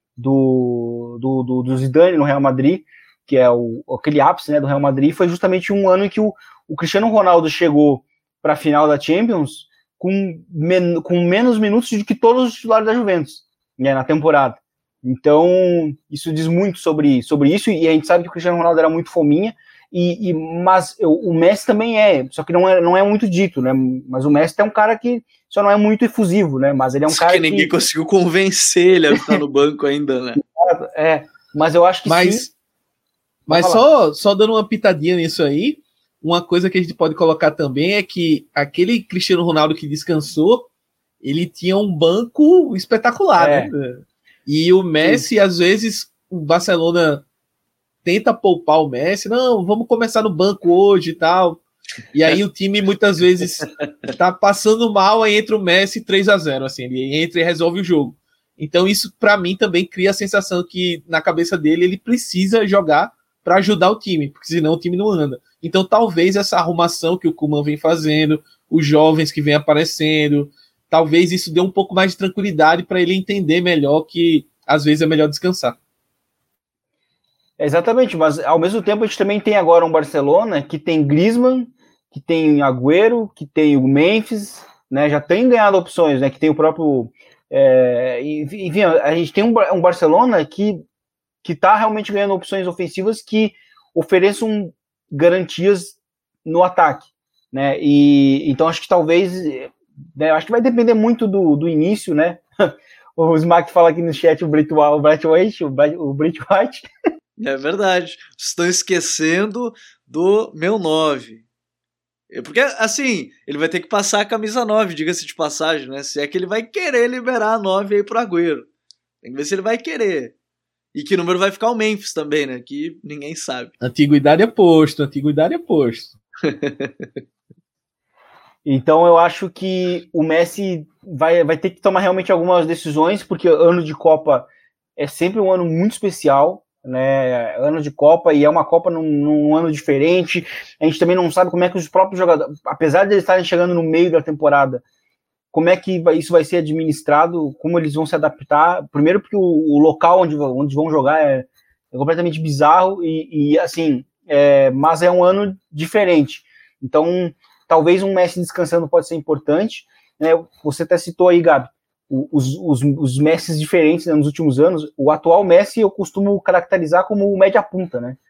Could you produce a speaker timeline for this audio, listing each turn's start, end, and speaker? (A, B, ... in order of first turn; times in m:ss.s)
0:00.2-0:27.7 A
0:27.1-0:30.4 B
0:30.4-0:32.4 A
0:32.0-0:32.5 C
0:33.5-0:33.8 A
0:33.5-0:40.7 C
0:41.2-0:47.2 C
0:43.4-0:43.7 A
0:45.0-0:45.3 A
0:48.0-0:51.6 C
0:52.1-1:15.8 C
1:17.6-1:30.8 A
1:31.4-1:46.9 A
1:47.4-1:51.4 B
1:52.3-1:58.7 B
1:59.2-2:00.3 B
2:00.9-2:03.7 B
2:03.8-2:06.2 C
2:06.4-2:07.1 B
2:08.6-2:24.8 A
2:25.5-2:48.2 A